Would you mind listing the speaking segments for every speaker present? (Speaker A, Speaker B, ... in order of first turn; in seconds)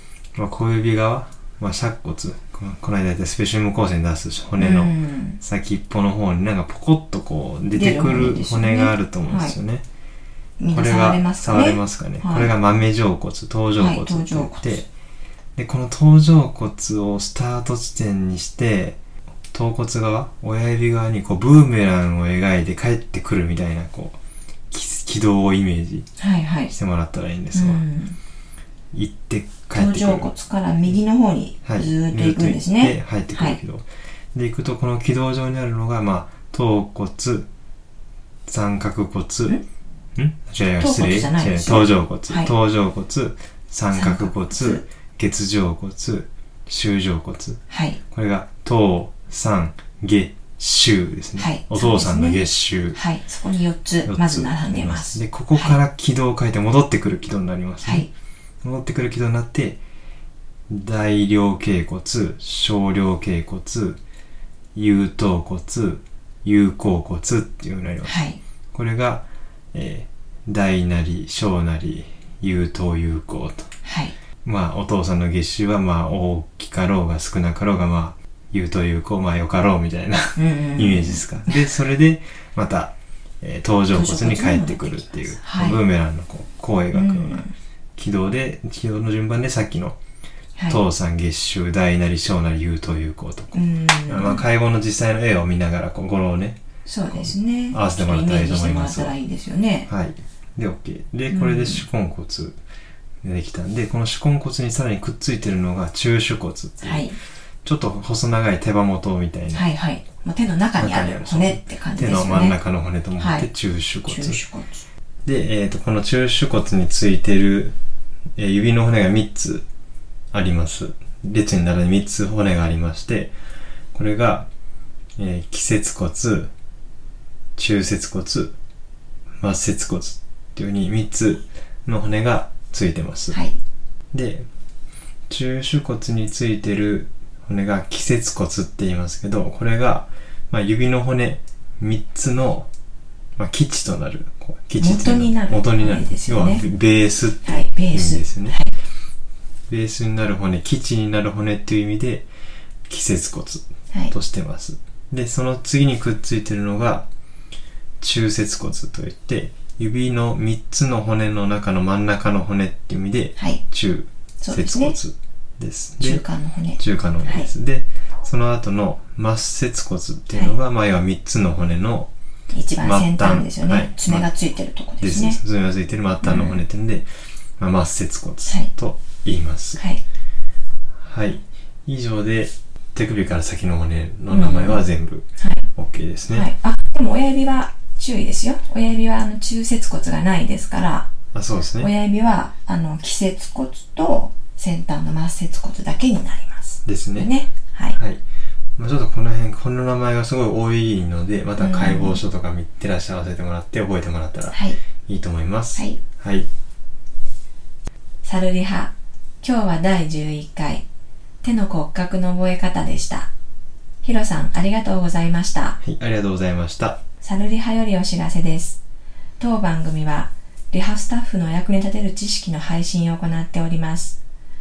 Speaker A: 0.3-9.8, 10.7-14.8, 15.6-19.0, 19.5-24.2, 24.7-26.1, 26.7-27.8, 28.9-30.3, 31.6-37.5, 38.5-39.6, 40.1-47.6, 48.1-53.0, 54.0-58.1, 58.6-59.8, 60.7-64.0, 64.7-68.2, 68.7-73.7, 74.4-90.0, 90.7-96.6, 97.1-99.1, 99.9-102.6, 103.2-107.1, 107.6-109.7, 110.8-114.4, 115.2-117.8, 118.4-119.6, 120.3-123.3, 123.9-124.5, 125.2-126.5, 127.5-128.5, 129.4-133.4, 134.1-134.4, 135.3-142.7, 143.4-148.6, 149.7-152.3, 152.9-157.1, 158.0-166.2, 166.8-172.1, 172.8-174.3, 175.0-177.1, 177.6-179.8, 181.0-186.5, 191.3-191.9, 196.8-197.3, 197.9-198.2, 198.8-206.5, 215.8-217.0
Speaker B: 4.6-5.4, 7.7-9.6, 10.6-12.5, 13.8-14.8, 26.2-26.7, 27.5-28.2, 29.7-33.6, 40.8-42.5, 43.9-44.8, 47.7-48.0, 51.4-52.4, 52.9-55.8, 57.8-58.1, 68.0-68.4, 73.8-74.1, 80.3-81.6, 83.9-85.8, 86.9-87.5, 93.5-94.4, 96.8-99.9, 101.3-101.8, 106.8-107.2, 109.5-112.6, 113.2-113.5, 114.0-114.8, 133.3-133.6, 144.8-146.6, 147.4-148.7, 164.4-165.0, 166.0-167.5, 172.5-175.4, 176.2-176.6, 179.8-180.0, 184.3-184.8, 185.4-185.6, 186.3-191.1, 191.8-198.0, 201.6-202.2, 204.5-204.8, 208.2-210.8, 211.4-213.3, 214.0-215.8, 217.2-218.8, 219.4-224.2